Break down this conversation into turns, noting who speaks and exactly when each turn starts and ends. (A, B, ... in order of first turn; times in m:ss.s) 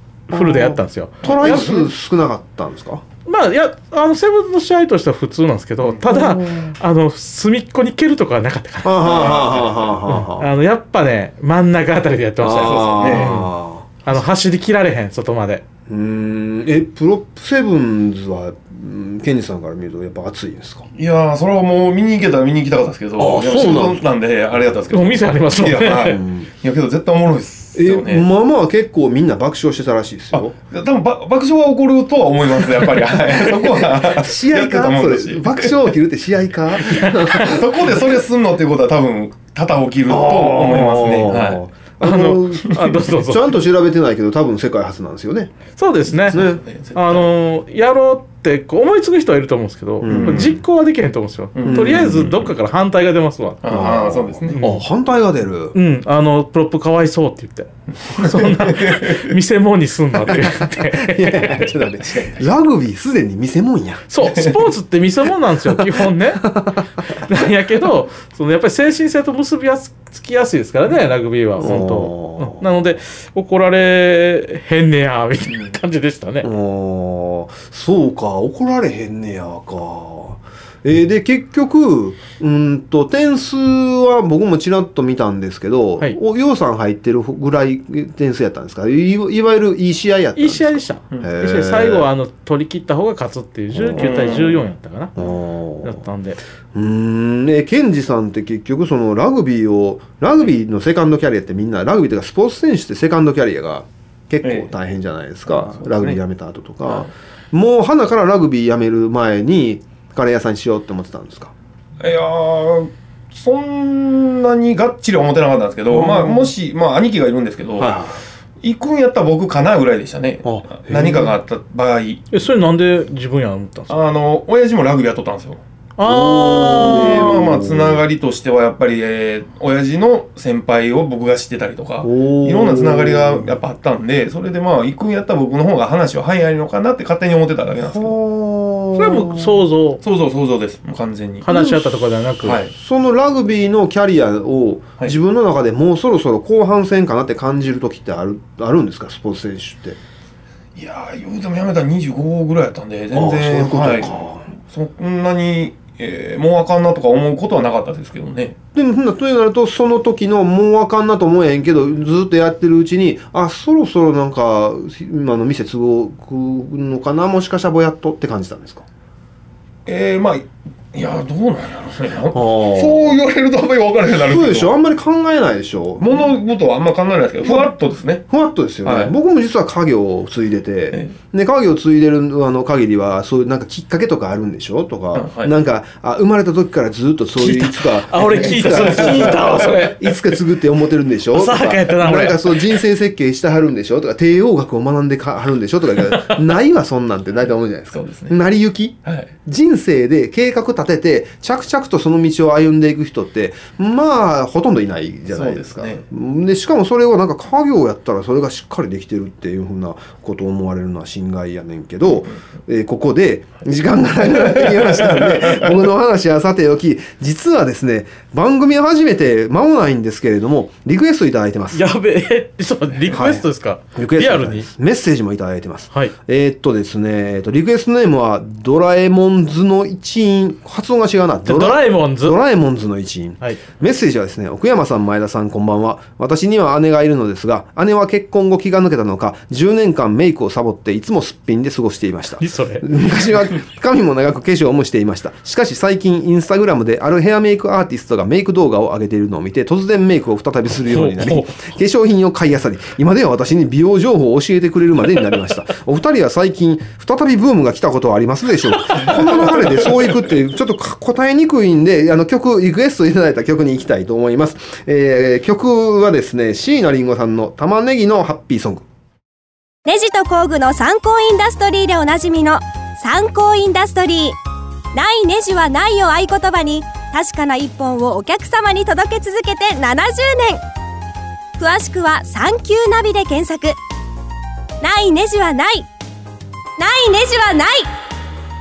0:00.3-0:01.8 A
0:00.3-0:03.0 B
0:01.2-0:01.9 C
0:03.3-0:09.4 A
0:06.0-0:06.8 B
0:08.8-0:10.5 B
0:09.0-0:10.0 C
0:10.1-0:13.5 A
0:12.4-0:13.9 B
0:12.5-0:13.4 C
0:14.0-0:15.6 A
0:15.9-0:20.9 B
0:21.0-0:28.3 C
0:23.2-0:24.0 B
0:24.9-0:26.2 A
0:26.0-0:26.5 B
0:27.8-0:30.5 B
0:30.3-0:35.9 C
0:33.5-0:38.0 B
0:36.9-0:41.6 C
0:37.0-0:37.4 A
0:40.1-0:45.5 B
0:42.0-0:43.5 A
0:45.8-0:46.4 A
0:46.2-0:47.3 C
0:46.3-0:46.6 B
0:47.0-0:53.9 A
0:50.0-0:50.6 B
0:50.1-0:50.6 C
0:51.6-0:52.5 C
0:51.6-0:52.3 B
0:53.6-0:54.6 C
0:53.7-0:55.8 B
0:54.5-0:54.8 A
0:55.7-1:01.7 A
0:58.0-0:59.3 C
1:00.4-1:04.1 B
1:02.1-1:02.4 C
1:04.1-1:16.5 A
1:05.8-1:07.0 B
1:11.6-1:12.6 B
1:16.4-1:32.1 B
1:30.4-1:35.2 A
1:33.7-1:34.5 B
1:34.0-1:34.7 C
1:35.2-1:36.0 B
1:35.8-1:36.4 A
1:36.7-1:51.5 B
1:44.4-1:44.7 C
1:45.5-1:46.2 C
1:52.0-1:58.0 C
1:55.9-1:56.5 B
1:57.8-1:58.2 B
1:58.6-2:02.3 C
2:00.4-2:01.4 B
2:02.3-2:03.9 A
2:03.9-2:05.6 C
2:06.0-2:07.3 A
2:06.0-2:08.0 B
2:06.8-2:18.2 C
2:12.0-2:13.6 B
2:17.8-2:19.5 B
2:19.0-2:20.0 A
2:20.0-2:21.5 C
2:21.4-2:22.6 A
2:21.5-2:30.0 B
2:22.4-2:22.7 C
2:30.8-2:38.6 C
2:33.1-2:34.5 B
2:38.8-2:48.9 B
2:49.9-2:54.7 C
2:52.3-2:53.2 B
2:54.1-2:56.3 B
2:56.0-2:58.3 C
2:57.4-2:57.7 B
2:58.3-3:41.8 B
2:58.8-2:59.1 C
3:05.1-3:05.5 C
3:07.4-3:10.2 A
3:08.4-3:09.8 C
3:11.3-3:12.8 A
3:17.9-3:18.4 C
3:19.0-3:19.3 C
3:25.3-3:26.0 C
3:34.2-3:35.9 C
3:41.7-3:44.7 A
3:43.1-4:28.8 B
3:51.5-3:52.4 A
4:02.4-4:02.9 A
4:10.9-4:11.5 A
4:29.8-4:34.4 D
4:34.9-4:40.6 D
4:41.6-4:43.8 D
4:44.8-4:45.9 D
4:46.8-4:47.9 D